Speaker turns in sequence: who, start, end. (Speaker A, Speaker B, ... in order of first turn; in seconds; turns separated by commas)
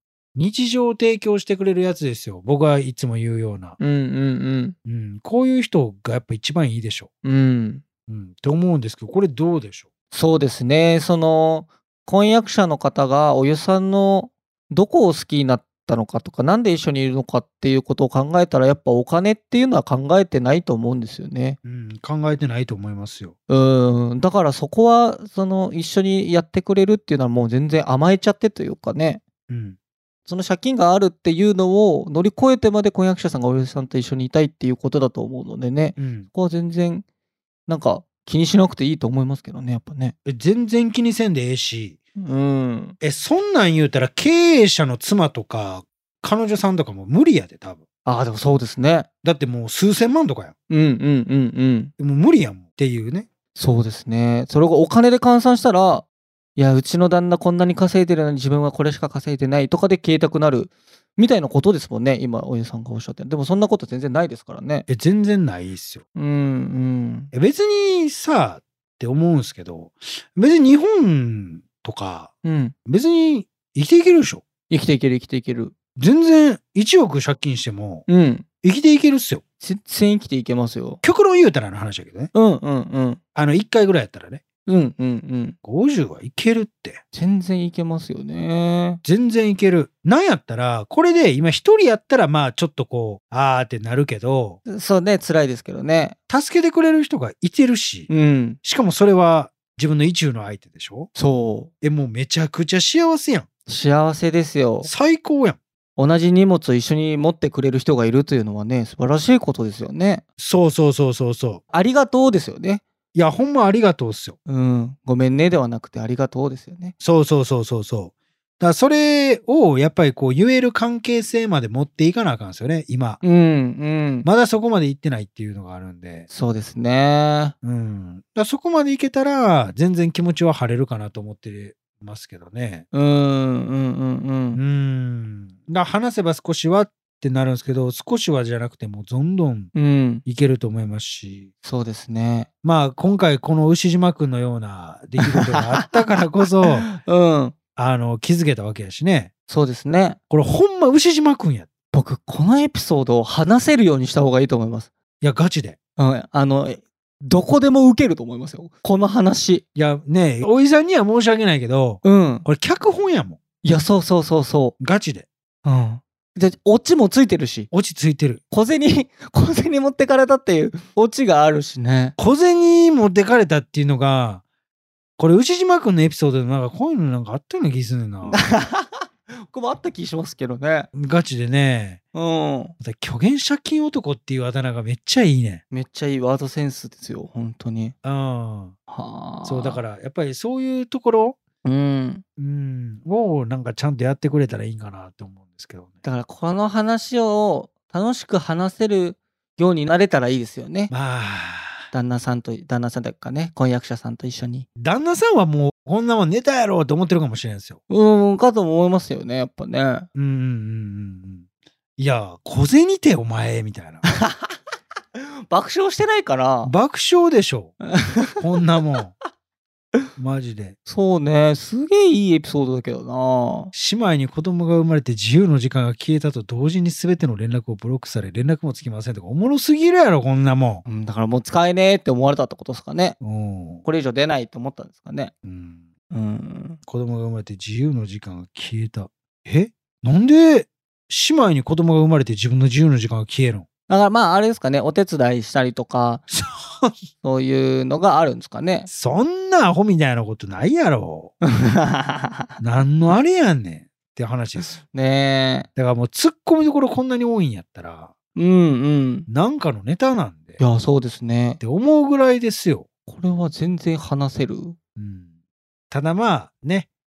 Speaker A: 0.3-3.8, Speaker B: 3.8-4.8, Speaker A: 4.9-7.1, Speaker B: 7.2-7.8, Speaker A: 8.1-9.9, Speaker B: 10.1-21.6, Speaker A: 21.6-23.3, Speaker B: 23.5-29.2, Speaker A: 29.5-29.8, Speaker B: 30.3-37.0, Speaker A: 36.0-36.3, Speaker B: 37.7-40.1, Speaker A: 40.3-42.0, Speaker B: 42.2-43.0, Speaker A: 43.0-47.8, Speaker B: 48.0-49.1, Speaker A: 49.2-50.5, Speaker B: 50.7-51.9, Speaker A: 52.0-53.3, Speaker B: 53.6-56.0, Speaker B: 56.6-64.9, Speaker A: 64.9-66.0, Speaker B: 66.2-67.3, Speaker A: 67.3-72.3, Speaker B: 72.4-72.7, Speaker A: 72.9-74.4, Speaker B: 74.7-75.7, Speaker A: 76.0-78.0, Speaker B: 78.1-78.5, Speaker A: 78.6-79.4, Speaker B: 79.6-81.0, Speaker A: 81.0-82.3, Speaker B: 82.3-83.2, Speaker A: 83.3-84.4, Speaker B: 84.7-85.6, Speaker A: 85.6-87.0, Speaker B: 87.1-89.0, Speaker A: 89.0-94.6, Speaker B: 94.7-96.2, Speaker A: 96.3-98.1, Speaker B: 98.1-98.6, Speaker A: 98.6-101.1, Speaker B: 101.2-101.7, Speaker A: 101.8-103.5, Speaker B: 103.7-104.9, Speaker A: 104.8-105.6, Speaker B: 106.0-110.2, Speaker A: 110.4-111.6, Speaker B: 111.7-112.8, Speaker A: 113.1-114.4, Speaker B: 114.5-116.9, Speaker A: 117.0-123.2, Speaker B: 123.2-124.3, Speaker A: 124.2-126.3, Speaker B: 126.3-127.5, Speaker A: 127.6-132.8, Speaker B: 132.9-134.6, Speaker A: 134.6-139.7, Speaker B: 139.7-140.2, Speaker A: 140.2-141.5, Speaker B: 141.6-142.5, Speaker A: 142.6-146.9, Speaker B: 145.2-145.9, Speaker B: 146.8-147.6, Speaker A: 147.8-149.3, Speaker B: 149.5-150.2, Speaker A: 150.3-151.7, Speaker B: 151.9-154.9, Speaker A: 155.2-155.8, Speaker B: 156.0-159.6, Speaker A: 159.8-163.4, Speaker B: 162.0-162.5, Speaker B: 163.6-164.8, Speaker A: 164.8-165.3, Speaker B: 165.7-167.7, Speaker A: 167.7-168.4, Speaker B: 168.5-172.2, Speaker A: 172.2-174.4, Speaker A: 175.2-178.4, Speaker B: 178.3-180.9, Speaker A: 180.9-182.0, Speaker B: 182.1-182.8, Speaker A: 182.8-185.6, Speaker B: 185.7-187.9, Speaker A: 188.0-188.8, Speaker B: 188.9-189.8, Speaker A: 189.4-191.4, Speaker B: 191.6-192.2, Speaker A: 192.4-195.9, Speaker B: 196.0-200.9, Speaker A: 200.9-201.9, Speaker B: 201.9-204.7, Speaker A: 204.8-207.8, Speaker B: 207.9-210.1, Speaker A: 210.2-211.4, Speaker A: 212.0-214.0, Speaker B: 214.1-214.6, Speaker B: 215.2-216.7, Speaker A: 216.6-217.8, Speaker B: 217.8-218.4, Speaker A: 218.4-219.1, Speaker A: 220.2-220.8, Speaker B: 220.9-223.7, Speaker A: 223.7-230.8, Speaker B: 230.9-233.2, Speaker A: 233.2-233.8, Speaker B: 233.8-235.3, Speaker A: 235.4-235.9, Speaker B: 236.1-236.8, Speaker A: 236.9-243.7, Speaker B: 243.9-246.2, Speaker A: 246.3-247.0, Speaker B: 247.2-248.9, Speaker A: 248.9-251.3, Speaker B: 251.4-252.5, Speaker A: 252.6-254.8, Speaker B: 254.8-255.7, Speaker A: 255.8-258.1, Speaker B: 258.4-259.3, Speaker A: 259.3-260.6, Speaker B: 260.6-261.6, Speaker A: 261.6-262.9, Speaker B: 263.1-264.8, Speaker A: 265.0-265.3, Speaker A: 265.9-266.9